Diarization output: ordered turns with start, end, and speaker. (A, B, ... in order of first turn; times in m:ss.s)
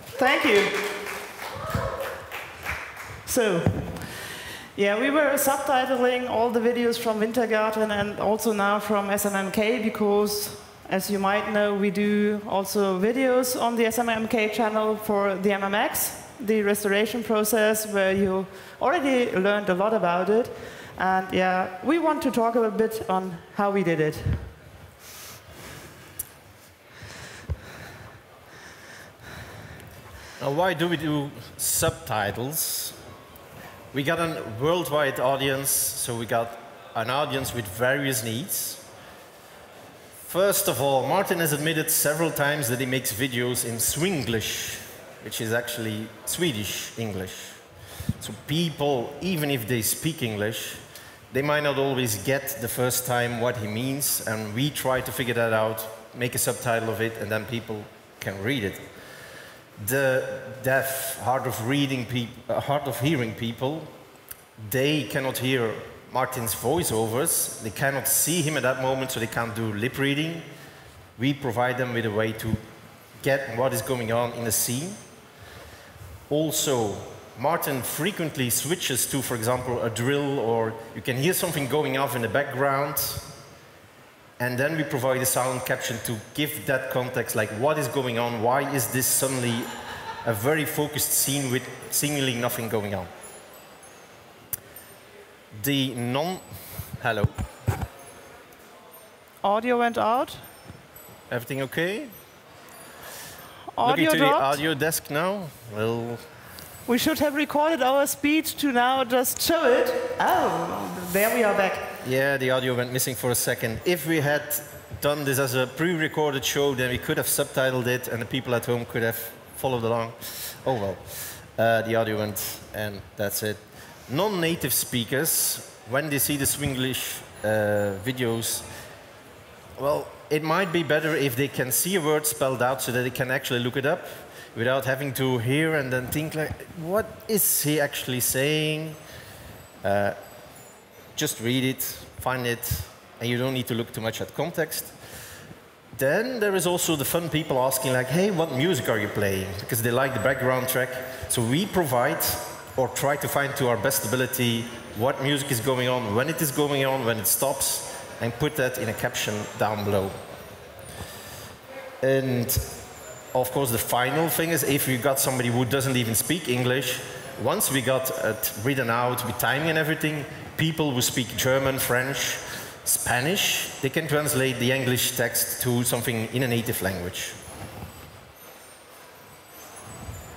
0:00.1-0:00.9 A
0:03.2-0:24.5 A
0:30.4-0:33.0 B
0:33.9-0:38.8 B
0:40.3-0:47.6 B
0:48.2-0:58.9 B
0:59.8-1:03.9 B
1:04.6-1:10.5 B
1:11.2-1:12.6 B
1:13.2-1:15.0 B
1:16.3-1:23.4 B
1:24.4-1:33.1 B
1:35.5-1:37.3 B
1:39.4-1:40.4 A
1:41.3-1:42.1 B
1:43.7-1:44.6 A
1:43.8-1:46.2 B
1:46.8-1:51.9 A
1:52.0-2:08.7 B
2:09.8-2:19.0 B
2:19.8-2:20.2 B
2:21.1-2:25.0 B
2:26.0-2:40.2 B
2:42.0-2:42.8 B
2:43.3-2:57.4 B